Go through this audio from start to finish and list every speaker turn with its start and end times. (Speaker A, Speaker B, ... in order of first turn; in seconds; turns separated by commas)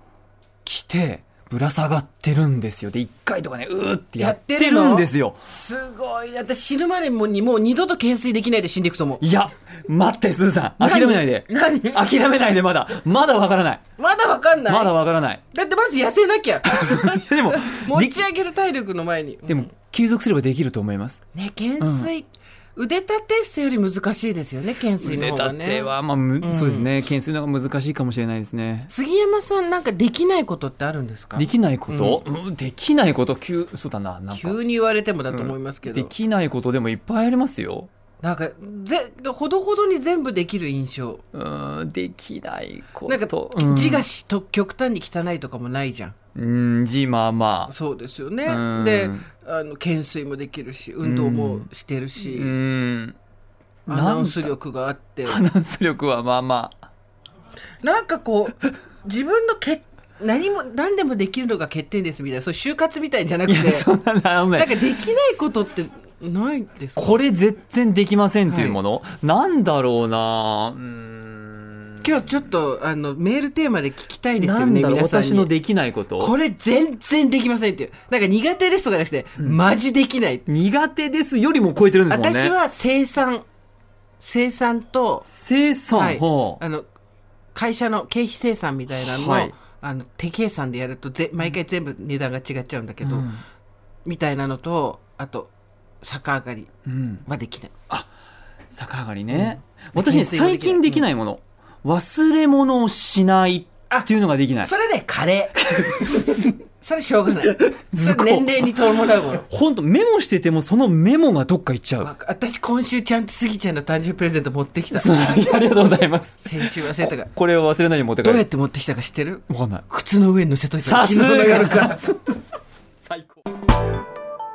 Speaker A: 0.7-5.4, Speaker B: 4.2-9.2, Speaker A: 9.2-13.8, Speaker B: 10.8-12.1, Speaker B: 14.0-14.9, Speaker A: 14.7-15.4, Speaker B: 15.5-19.7, Speaker A: 16.7-18.2, Speaker A: 19.5-21.2, Speaker B: 21.3-26.9, Speaker A: 21.8-22.1, Speaker A: 25.0-28.9, Speaker B: 28.9-32.2, Speaker A: 31.4-34.6, Speaker B: 34.3-36.1, Speaker A: 35.3-37.9, Speaker B: 38.2-41.2, Speaker A: 41.3-44.0, Speaker B: 43.1-46.1, Speaker A: 46.4-47.7, Speaker B: 47.7-52.5, Speaker A: 48.5-49.3, Speaker A: 51.0-53.2, Speaker B: 53.9-55.5, Speaker A: 53.9-54.5, Speaker A: 55.2-56.8, Speaker B: 57.8-63.9, Speaker A: 63.5-65.1, Speaker B: 64.5-67.2, Speaker A: 67.0-72.1, Speaker B: 68.5-68.8, Speaker B: 72.0-75.5, Speaker A: 74.4-76.3, Speaker B: 76.2-80.5, Speaker A: 80.5-82.5, Speaker B: 82.1-83.4, Speaker B: 84.2-85.3, Speaker A: 85.3-86.6, Speaker B: 85.9-86.8, Speaker B: 87.5-93.3, Speaker A: 88.9-89.5, Speaker A: 93.0-93.4, Speaker B: 94.0-95.5, Speaker B: 96.0-96.7, Speaker A: 96.9-97.2, Speaker B: 97.3-97.7, Speaker A: 98.7-104.7, Speaker B: 99.3-101.1, Speaker B: 104.6-109.5, Speaker A: 105.6-106.5, Speaker A: 107.5-112.1, Speaker B: 112.0-115.6, Speaker A: 114.9-118.5, Speaker B: 116.4-117.3, Speaker B: 118.2-122.1, Speaker A: 119.5-119.8, Speaker A: 120.8-122.3, Speaker A: 123.0-123.4